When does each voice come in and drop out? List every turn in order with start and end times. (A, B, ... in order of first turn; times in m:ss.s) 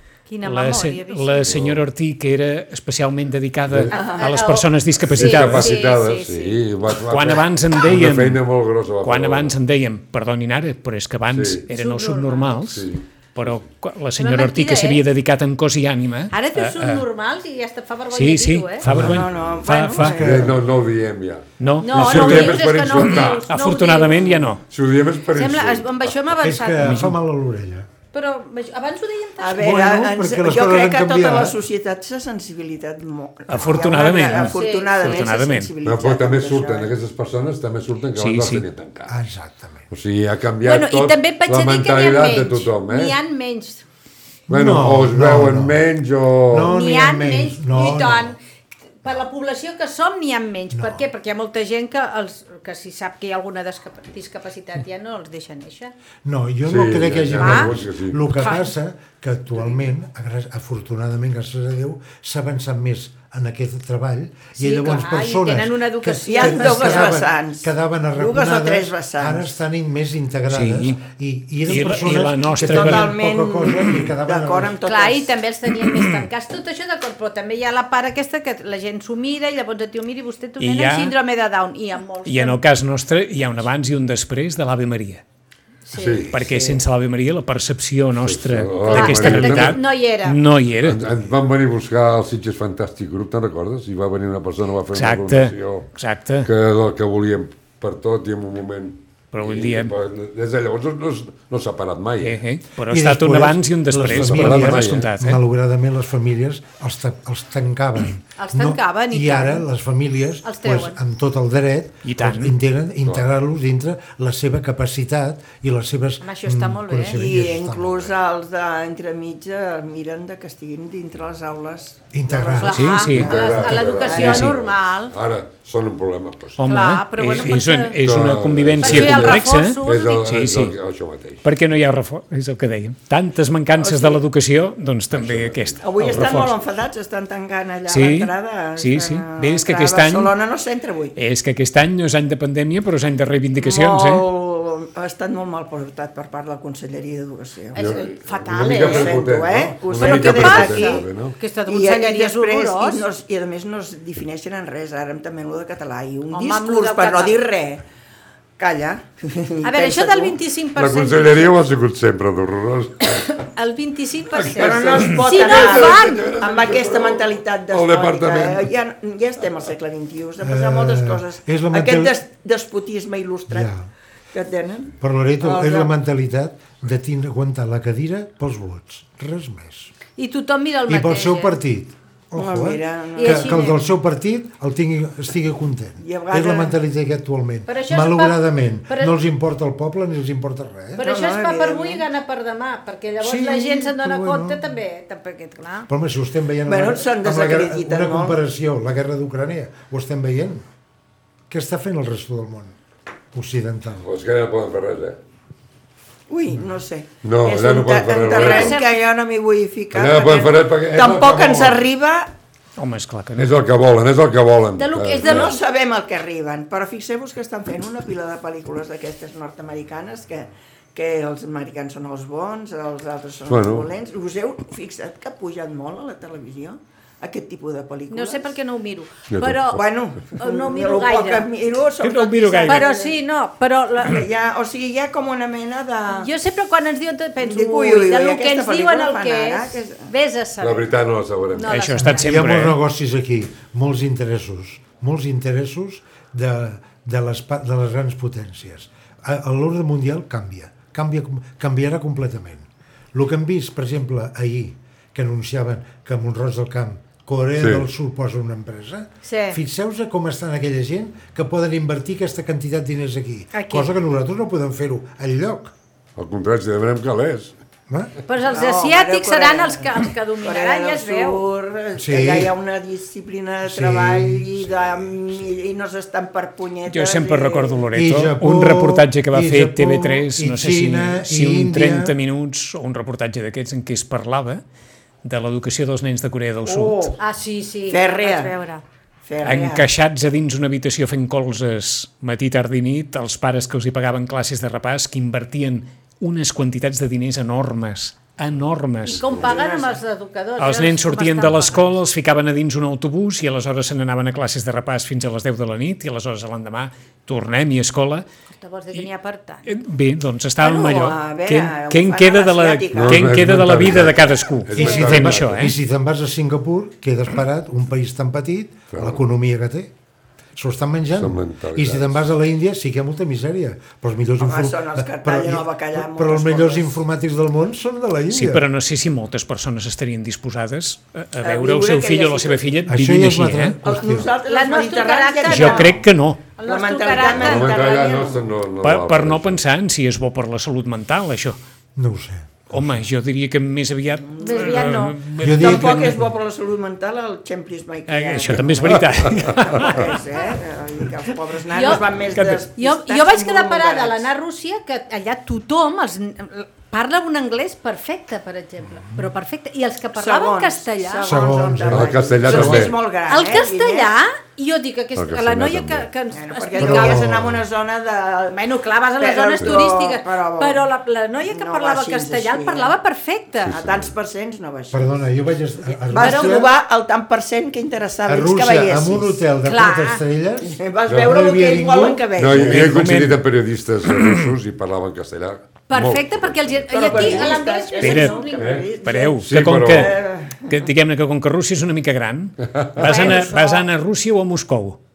0:00.3-0:01.5 A
0:00.4-0:05.8 B
0:01.5-0:01.8 C
0:03.9-0:06.6 A
0:03.9-0:04.3 D
0:05.1-0:09.6 C
0:07.1-0:08.4 B
0:09.0-0:17.0 B
0:11.3-0:11.6 C
0:11.7-0:12.7 A
0:12.7-0:13.0 C
0:14.2-0:15.0 A
0:16.3-0:18.9 A
0:18.1-0:20.2 B
0:18.8-0:19.3 E
0:18.9-0:20.5 D
0:20.0-0:20.6 E
0:20.2-0:23.5 C
0:21.6-0:24.6 B
0:21.8-0:24.4 A
0:24.7-0:26.1 C
0:25.3-0:27.0 A
0:26.4-0:27.9 E
0:26.8-0:27.2 B
0:28.1-0:29.6 A
0:29.4-0:36.9 D
0:29.5-0:31.6 E
0:33.5-0:35.7 B
0:34.0-0:35.3 A
0:35.8-0:39.2 C
0:38.2-0:38.6 B
0:39.1-0:39.9 E
0:39.9-0:43.2 C
0:40.6-0:43.8 A
0:44.5-0:45.8 E
0:44.5-0:46.7 C
0:46.5-0:48.4 E
0:46.6-0:48.4 A
0:49.0-0:55.9 A
0:50.7-0:51.0 E
0:56.2-1:14.8 E
0:56.6-0:58.2 C
0:57.4-0:57.7 A
0:58.4-0:58.7 A
1:04.6-1:07.2 A
1:06.3-1:09.5 D
1:10.5-1:11.0 B
1:11.6-1:13.2 B
1:12.6-1:15.3 D
1:14.8-1:22.6 A
1:15.7-1:16.3 B
1:20.6-1:21.1 B
1:22.2-1:25.2 B
1:25.8-1:26.8 A
1:25.9-1:26.4 C
1:26.3-1:31.0 B
1:28.2-1:29.8 C
1:28.8-1:30.4 A
1:30.8-1:35.9 C
1:34.9-1:36.5 B
1:36.4-1:42.4 C
1:39.3-1:39.9 B
1:42.2-1:45.4 B
1:42.9-1:58.1 E
1:44.0-1:45.1 C
1:48.4-1:49.6 A
1:50.4-1:51.0 A
1:52.0-1:52.6 B
1:56.2-1:57.3 A
1:57.1-2:04.5 D
2:02.1-2:03.0 E
2:02.6-2:05.1 A
2:02.7-2:03.4 B
2:03.1-2:06.6 C
2:04.1-2:04.5 B
2:06.6-2:10.7 B
2:06.6-2:08.0 A
2:08.0-2:11.4 C
2:08.8-2:10.3 A
2:11.4-2:16.6 B
2:13.8-2:14.2 D
2:15.1-2:16.2 C
2:15.8-2:21.2 D
2:17.9-2:20.3 B
2:21.1-2:24.2 B
2:23.6-2:27.8 D
2:27.7-2:29.2 A
2:27.7-2:31.4 C
2:28.7-2:31.1 D
2:29.9-2:33.0 A
2:31.6-2:37.8 D
2:36.3-2:37.4 A
2:38.6-2:40.4 D
2:39.6-2:41.6 A
2:40.8-2:43.3 C
2:43.2-2:46.3 A
2:44.3-2:48.7 C
2:44.5-2:53.7 D
2:50.4-2:52.2 E
2:53.5-2:53.8 E
2:54.3-2:55.9 D
2:55.0-2:59.9 E
3:00.2-3:01.6 A
3:00.9-3:11.1 E
3:02.3-3:03.7 D
3:03.2-3:03.8 A
3:06.0-3:06.8 D
3:07.7-3:09.1 A
3:11.0-3:15.9 A
3:11.0-3:12.0 D
3:13.2-3:14.6 E
3:15.9-3:20.6 E
3:16.6-3:18.4 D
3:21.5-3:22.8 E
3:23.3-3:24.1 E
3:24.0-3:25.2 C
3:26.3-3:32.3 D
3:27.2-3:28.8 C
3:28.3-3:28.9 A
3:29.9-3:31.8 C
3:32.8-3:33.5 B
3:33.4-3:35.5 C
3:34.8-3:35.6 A
3:35.2-3:48.5 D
3:43.4-3:43.9 C
3:48.1-3:49.8 A
3:49.3-3:49.8 C
3:49.7-3:53.1 D
3:50.4-3:51.5 A
3:52.0-3:52.9 B
3:52.6-3:54.2 A
3:54.0-3:56.3 D
3:56.1-4:00.8 A
3:57.4-4:00.1 D
4:00.6-4:01.9 C
4:01.5-4:02.4 A
4:01.7-4:02.8 B
4:02.2-4:25.7 E
4:17.6-4:17.8 C
4:19.2-4:19.6 A
4:23.5-4:23.9 A
4:26.2-4:27.5 C
4:28.3-4:31.4 A
4:28.4-4:37.8 D
4:31.9-4:32.5 E
4:33.6-4:34.9 E
4:36.9-4:44.6 B
4:37.9-4:42.1 E
4:45.2-4:47.1 B
4:46.6-4:47.2 D
4:47.2-4:48.8 A
4:47.9-4:48.5 D
4:49.2-4:49.9 D
4:49.4-4:59.3 B
4:59.1-5:01.9 A
4:59.2-5:00.0 D
5:00.6-5:08.2 B
5:08.5-5:09.7 A
5:09.6-5:15.7 B
5:10.6-5:14.0 D
5:12.9-5:15.6 C
5:14.7-5:19.9 E
5:18.9-5:19.2 C
5:20.6-5:28.6 E
5:21.2-5:22.2 C
5:24.4-5:26.9 D
5:28.3-5:33.8 B
5:31.4-5:32.6 D
5:32.9-5:34.3 E
5:33.8-5:35.9 D
5:34.4-5:35.9 A
5:35.4-5:36.4 B
5:36.6-5:37.7 A
5:36.6-5:38.4 D
5:37.2-5:39.6 C
5:38.8-5:41.6 B
5:42.0-5:43.0 E
5:42.7-5:46.2 B
5:44.3-5:44.9 D
5:44.4-5:45.2 A
5:45.4-5:46.3 E
5:45.4-5:54.3 D
5:48.1-5:50.2 B
5:51.7-5:52.1 A
5:51.9-5:52.6 B
5:52.7-6:01.4 A
6:00.1-6:04.1 D
6:01.2-6:02.9 E
6:01.8-6:03.0 C
6:03.3-6:07.3 A
6:05.1-6:06.1 C
6:06.3-6:08.6 D
6:06.8-6:07.6 E
6:08.5-6:13.7 A
6:09.2-6:10.8 D
6:11.4-6:12.9 D
6:13.6-6:14.1 C
6:13.6-6:15.1 D
6:14.9-6:16.7 E
6:16.1-6:19.4 D
6:16.1-6:16.7 A
6:18.2-6:22.3 E
6:19.6-6:20.2 A
6:20.6-6:22.8 D
6:21.1-6:21.3 C
6:22.4-6:27.6 C
6:22.5-6:23.4 B
6:24.0-6:24.5 B
6:25.9-6:28.8 A
6:26.9-6:30.8 D
6:28.0-6:28.4 B
6:28.5-6:28.9 C
6:29.0-6:35.0 B
6:29.4-6:30.2 C
6:32.6-6:33.3 C
6:33.0-6:33.9 A